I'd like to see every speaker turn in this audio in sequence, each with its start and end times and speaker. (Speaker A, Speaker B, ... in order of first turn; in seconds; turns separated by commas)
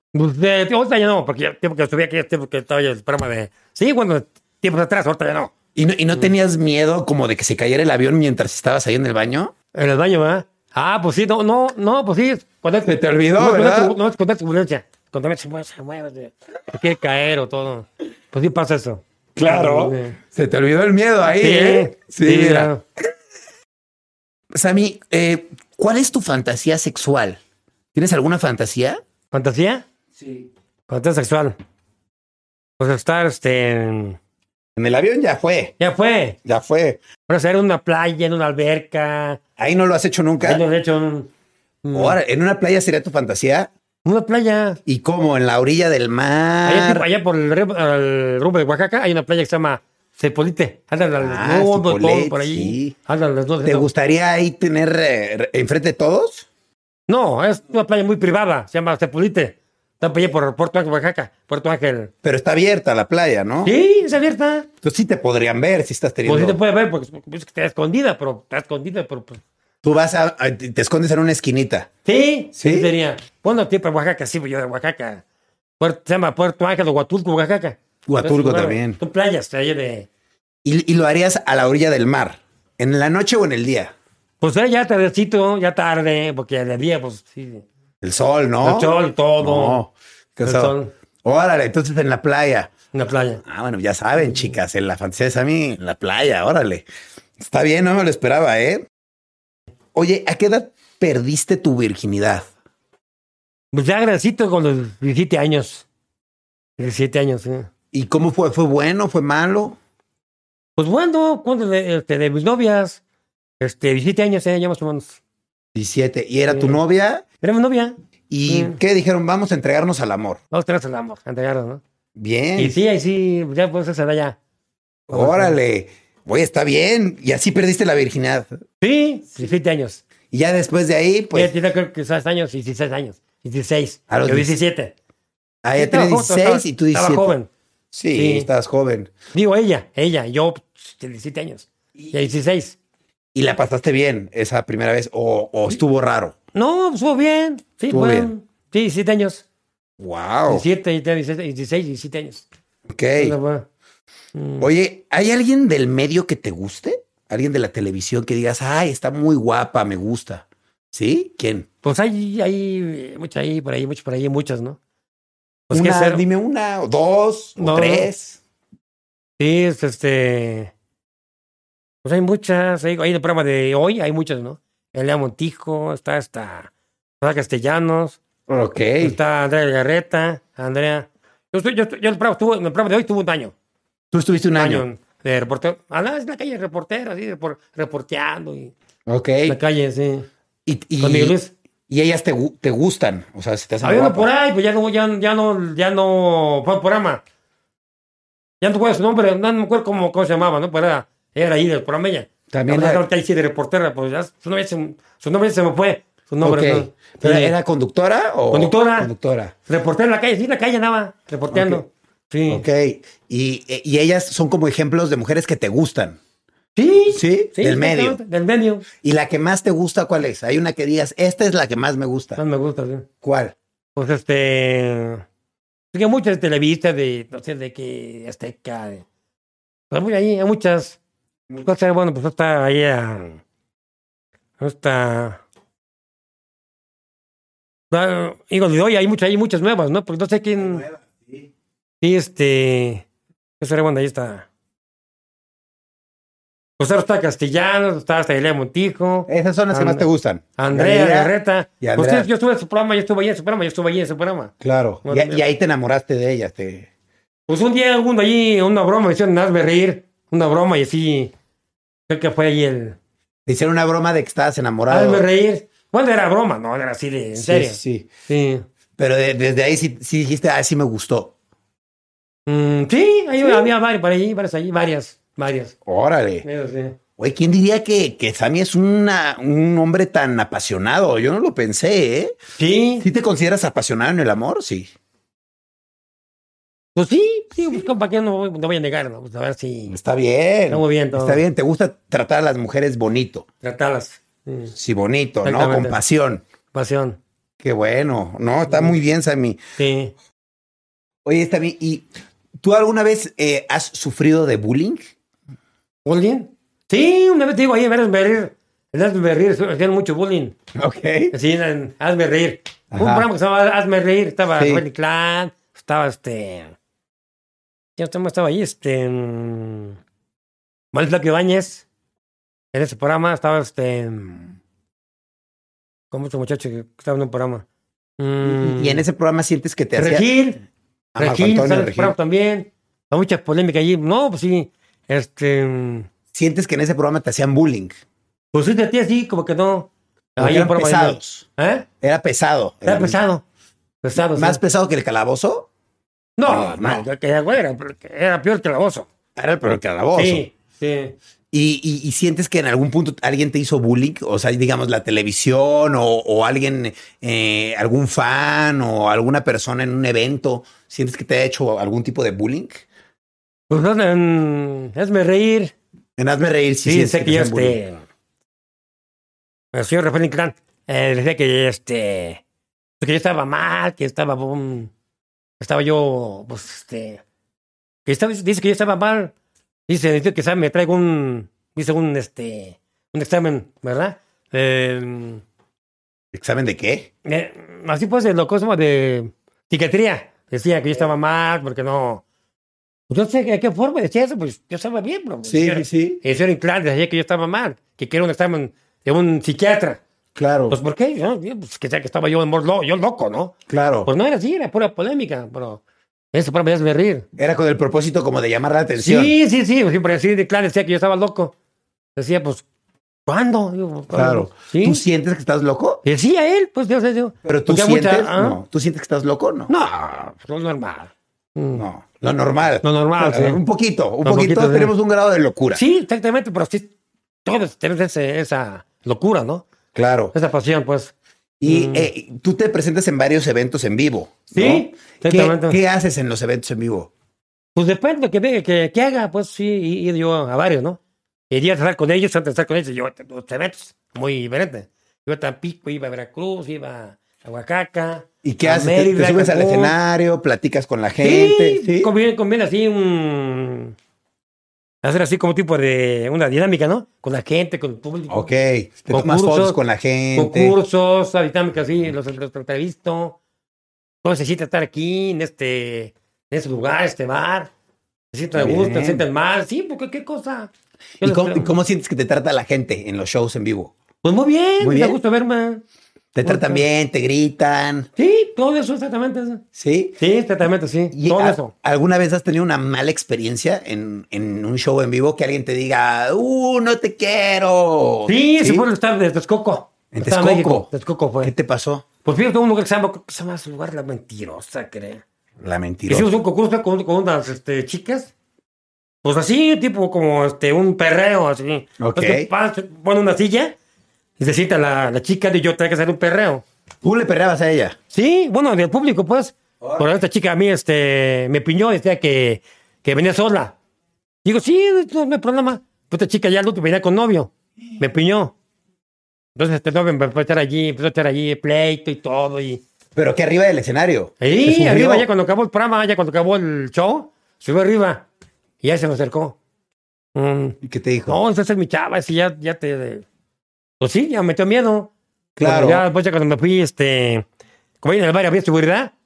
Speaker A: 0.1-5.5, Speaker B: 5.8-9.5, Speaker A: 9.7-20.2, Speaker B: 12.8-14.0, Speaker B: 19.4-22.7, Speaker A: 21.3-22.8, Speaker B: 24.5-27.4, Speaker B: 27.9-29.0, Speaker A: 29.3-29.9, Speaker B: 30.2-30.5, Speaker A: 30.9-31.6, Speaker A: 32.8-34.2, Speaker B: 34.8-35.8, Speaker A: 35.8-36.4, Speaker B: 36.4-37.0, Speaker A: 37.3-39.4, Speaker B: 39.6-40.6, Speaker A: 40.4-41.3, Speaker A: 41.8-42.2, Speaker B: 41.9-43.7, Speaker A: 44.0-44.8, Speaker B: 44.9-47.1, Speaker A: 46.6-53.9, Speaker B: 51.2-53.0, Speaker B: 53.6-56.5, Speaker A: 57.1-62.1, Speaker B: 62.2-63.7, Speaker A: 63.6-64.7, Speaker B: 64.8-66.6, Speaker A: 66.3-69.4, Speaker B: 69.8-71.9, Speaker A: 72.0-75.2, Speaker B: 72.5-72.9, Speaker A: 75.8-80.1, Speaker B: 78.1-79.0, Speaker B: 80.7-84.0, Speaker A: 84.4-87.7, Speaker B: 88.0-92.7, Speaker A: 88.6-89.8, Speaker A: 90.4-90.9, Speaker A: 92.9-93.4, Speaker B: 93.4-96.9, Speaker A: 94.2-94.5, Speaker B: 97.4-98.9, Speaker B: 99.9-102.5, Speaker A: 103.7-105.9, Speaker A: 106.8-107.7, Speaker B: 107.9-109.8, Speaker A: 110.8-113.0, Speaker A: 113.6-115.2, Speaker B: 115.8-117.2, Speaker A: 116.5-116.8, Speaker A: 117.4-118.8, Speaker B: 118.3-120.4, Speaker A: 120.5-121.8, Speaker B: 122.2-122.8, Speaker A: 122.6-124.4, Speaker B: 125.1-128.6, Speaker A: 125.1-125.5, Speaker A: 128.8-130.0, Speaker B: 130.3-131.5, Speaker A: 131.3-134.9, Speaker B: 134.1-134.6, Speaker B: 135.6-137.3, Speaker A: 135.8-137.5, Speaker B: 137.9-139.1, Speaker A: 138.1-138.5, Speaker A: 139.3-142.8, Speaker B: 143.3-146.3, Speaker A: 146.5-149.4, Speaker B: 147.9-148.3, Speaker B: 150.0-150.7, Speaker A: 150.5-152.5, Speaker B: 152.9-153.4, Speaker A: 153.2-153.7, Speaker A: 154.3-154.7, Speaker B: 154.6-161.7, Speaker A: 161.8-164.8, Speaker A: 165.7-166.2, Speaker B: 165.7-168.4, Speaker A: 167.6-168.1, Speaker A: 169.4-170.7, Speaker A: 172.0-178.2, Speaker B: 178.5-179.2, Speaker A: 179.0-183.5, Speaker B: 184.1-184.8, Speaker A: 184.6-188.7, Speaker B: 189.1-189.6, Speaker A: 189.5-190.3, Speaker B: 190.7-191.4, Speaker A: 191.0-191.5, Speaker B: 191.9-194.3, Speaker A: 193.8-197.2, Speaker A: 198.6-207.5, Speaker B: 202.5-203.1, Speaker B: 206.4-209.5, Speaker A: 208.5-209.1, Speaker A: 209.7-212.7, Speaker B: 211.5-211.8, Speaker B: 212.5-216.2, Speaker A: 216.8-218.8, Speaker B: 217.1-218.2, Speaker B: 219.0-222.4, Speaker A: 222.4-223.1, Speaker B: 223.2-223.6, Speaker A: 224.0-225.2, Speaker A: 225.9-229.1, Speaker A: 229.9-231.0, Speaker A: 231.6-233.4, Speaker A: 234.6-235.4, Speaker A: 237.9-240.8, Speaker B: 240.6-241.5, Speaker A: 242.0-243.1, Speaker A: 243.6-244.5, Speaker A: 246.8-250.1, Speaker B: 249.3-252.3, Speaker A: 250.6-254.5, Speaker B: 254.6-256.9, Speaker A: 255.1-255.4, Speaker A: 257.5-261.3, Speaker A: 262.1-263.0, Speaker B: 263.5-265.2, Speaker A: 264.9-268.6, Speaker B: 267.4-268.1, Speaker B: 269.0-271.4, Speaker A: 272.5-275.8, Speaker B: 273.4-273.7, Speaker B: 275.9-276.5, Speaker A: 276.4-277.0, Speaker B: 277.2-282.4, Speaker A: 282.6-283.1, Speaker B: 283.0-284.9, Speaker A: 287.0-290.0, Speaker B: 289.9-293.5, Speaker A: 290.7-291.4, Speaker A: 293.6-294.7, Speaker B: 294.8-296.4, Speaker A: 295.4-296.0, Speaker A: 296.7-297.2, Speaker B: 297.6-299.6, Speaker A: 298.7-298.9, Speaker A: 299.8-300.1, Speaker B: 301.2-302.1, Speaker B: 302.6-305.0, Speaker A: 306.1-310.6, Speaker B: 310.8-311.3, Speaker A: 311.3-316.8, Speaker B: 312.9-313.3, Speaker B: 314.6-314.8, Speaker A: 318.0-320.0, Speaker A: 320.9-321.9, Speaker A: 322.7-324.5, Speaker A: 326.1-327.6, Speaker A: 328.2-329.0, Speaker B: 328.4-330.3, Speaker A: 330.0-330.6, Speaker B: 331.1-332.1, Speaker A: 331.2-336.1, Speaker B: 336.3-337.9, Speaker A: 338.5-341.9, Speaker B: 340.4-341.5, Speaker B: 342.0-343.2, Speaker A: 342.9-343.4, Speaker A: 344.0-344.6, Speaker B: 344.2-345.7, Speaker A: 346.4-349.1, Speaker B: 346.4-347.1, Speaker B: 349.4-350.5, Speaker A: 350.1-351.2, Speaker B: 351.5-362.9, Speaker A: 363.7-365.7, Speaker B: 366.2-367.8, Speaker A: 366.8-368.1, Speaker A: 369.7-372.4, Speaker A: 373.0-374.9, Speaker A: 375.6-377.2, Speaker A: 378.1-379.3, Speaker A: 379.9-385.4, Speaker B: 386.3-387.1, Speaker A: 387.2-392.2, Speaker A: 393.1-400.0, Speaker B: 395.4-396.2, Speaker B: 400.4-400.8, Speaker A: 400.7-403.6, Speaker B: 403.7-404.1, Speaker A: 404.1-405.8, Speaker A: 406.3-407.3, Speaker B: 407.4-409.4, Speaker A: 409.0-411.5, Speaker A: 412.2-412.6, Speaker A: 413.3-415.0, Speaker B: 414.1-416.0, Speaker A: 416.0-418.6, Speaker B: 417.4-419.7, Speaker A: 419.7-421.8, Speaker B: 421.8-425.8, Speaker A: 422.8-423.6, Speaker A: 424.2-424.9, Speaker A: 425.7-426.9, Speaker A: 427.4-429.6, Speaker B: 429.9-430.3, Speaker A: 430.3-431.1, Speaker B: 431.6-437.1, Speaker A: 431.6-432.1, Speaker A: 434.5-435.8, Speaker A: 437.8-441.0, Speaker A: 441.5-449.9, Speaker B: 448.4-452.1, Speaker A: 451.2-453.9, Speaker A: 455.0-458.5, Speaker B: 458.3-460.8, Speaker A: 459.1-459.8, Speaker A: 460.4-463.4, Speaker A: 464.2-467.7, Speaker A: 468.3-470.7, Speaker B: 468.6-469.2, Speaker B: 471.2-473.9, Speaker A: 471.2-471.7, Speaker A: 474.2-475.8, Speaker B: 474.8-475.2, Speaker B: 476.4-478.1, Speaker A: 476.4-476.8, Speaker A: 478.2-479.6, Speaker B: 479.7-480.2, Speaker A: 480.2-481.7, Speaker B: 481.1-488.9, Speaker A: 488.3-491.5, Speaker B: 490.1-490.9, Speaker B: 491.4-492.1, Speaker A: 492.2-495.2, Speaker B: 495.6-496.4, Speaker A: 496.1-498.3, Speaker A: 499.2-503.8, Speaker B: 502.0-502.5, Speaker A: 504.4-506.6, Speaker B: 507.0-508.0, Speaker A: 508.1-513.8, Speaker B: 509.8-510.1, Speaker A: 514.4-518.5, Speaker A: 519.6-522.8, Speaker B: 523.2-525.3, Speaker A: 524.4-528.3, Speaker A: 528.8-529.6, Speaker A: 530.4-533.2, Speaker B: 530.8-531.4, Speaker A: 534.0-537.5, Speaker B: 535.6-536.0, Speaker A: 538.0-539.1